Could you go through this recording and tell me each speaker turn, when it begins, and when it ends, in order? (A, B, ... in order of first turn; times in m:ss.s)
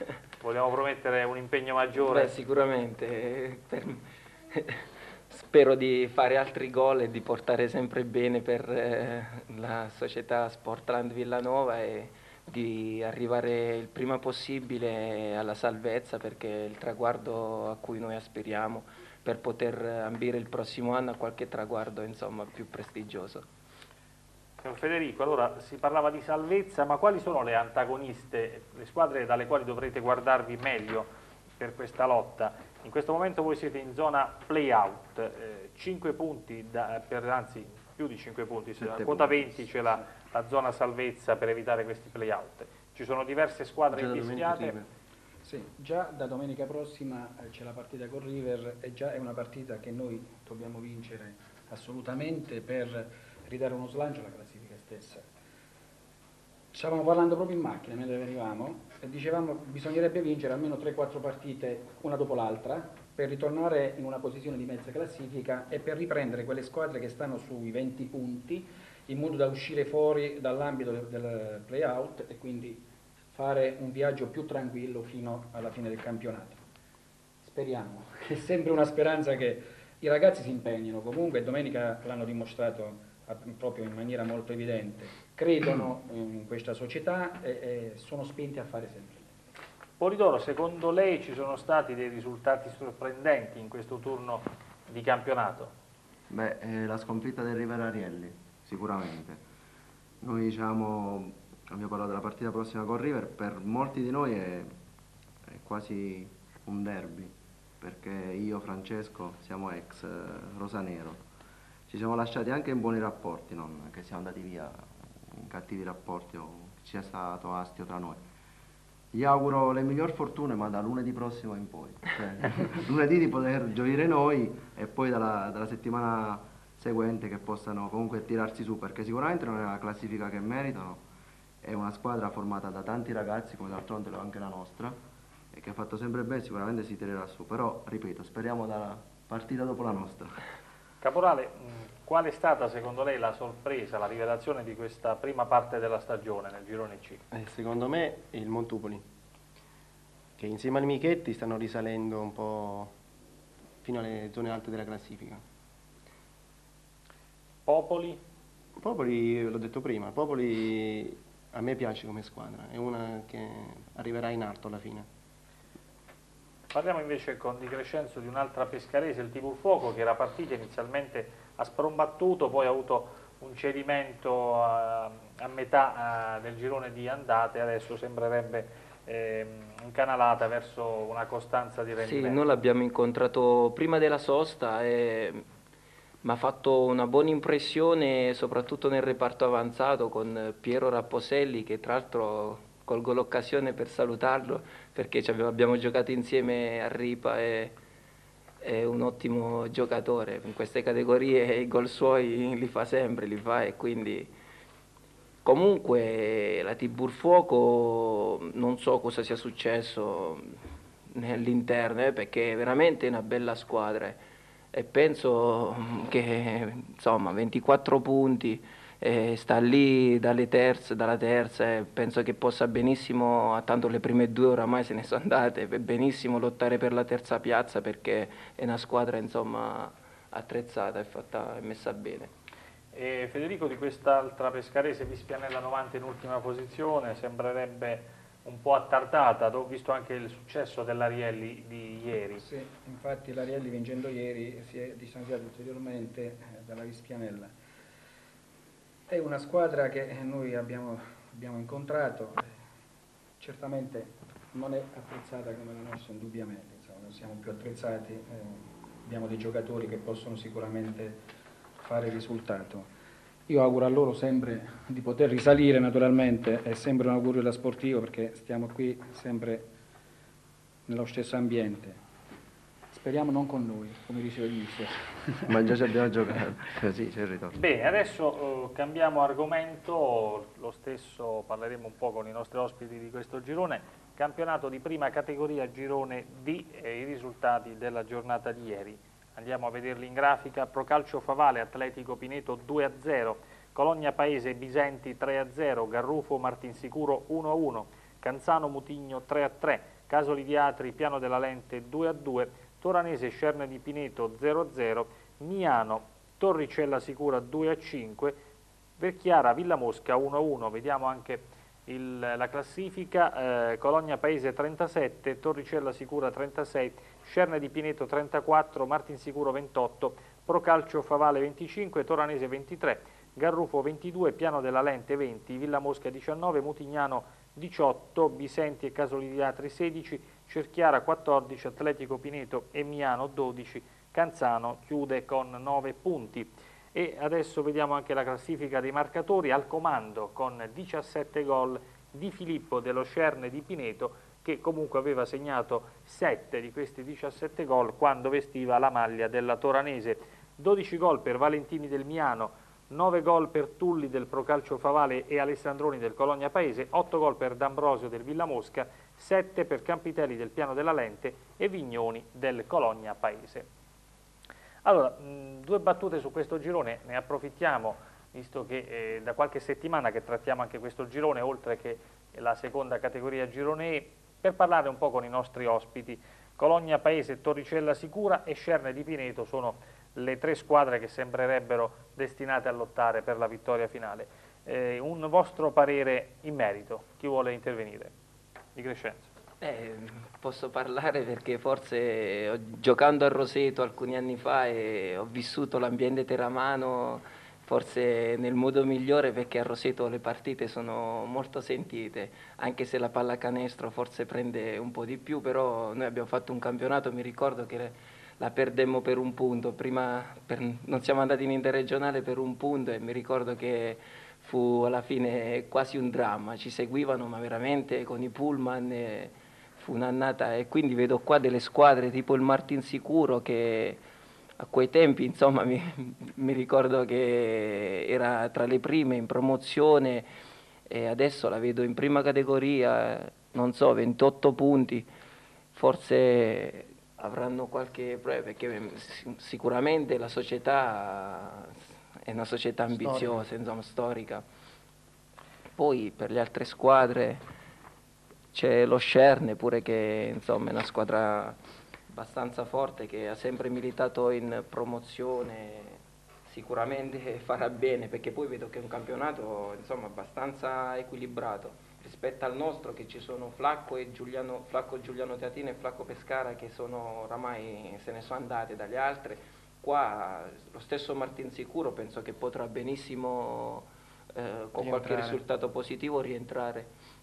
0:00.4-0:02.3 A
0:02.0-0:23.4 B
0:24.6-0:31.1 A
0:31.6-0:44.8 A
0:39.0-0:39.4 C
0:43.9-0:44.9 D
0:45.4-0:55.3 E
0:56.7-1:16.6 E
1:17.4-1:29.3 E
1:30.0-1:35.7 A
1:36.3-1:39.4 C
1:40.2-1:44.7 C
1:45.5-1:51.2 C
1:51.9-1:58.2 C
1:59.1-2:11.0 C
2:11.6-2:15.0 C
2:15.5-2:20.4 C
2:21.0-2:27.2 A
2:27.3-2:29.0 D
2:30.4-2:32.9 D
2:33.8-2:35.4 D
2:37.7-2:38.2 A
2:38.8-2:45.1 D
2:46.7-3:02.4 A
3:02.0-3:05.5 B
3:06.2-3:17.8 B
3:18.6-3:24.3 B
3:25.4-3:30.6 B
3:31.1-3:34.2 B
3:34.7-3:52.3 B
3:52.9-4:02.4 A
4:02.4-4:07.5 E
4:09.1-4:12.6 E
4:13.4-4:21.2 E
4:21.8-4:22.9 E
4:23.5-4:29.7 E
4:30.9-4:32.0 E
4:32.9-4:35.5 E
4:35.5-4:37.6 C
4:37.5-5:08.4 A
5:09.0-6:03.7 A
6:04.8-6:28.1 A
6:28.8-6:29.3 A
6:29.6-7:04.0 B
7:04.6-7:10.3 B
7:10.9-7:15.1 B
7:15.8-7:24.4 B
7:23.0-7:23.4 D
7:25.8-7:27.4 B
7:28.5-7:31.6 B
7:32.1-7:56.9 B
7:54.8-7:55.4 D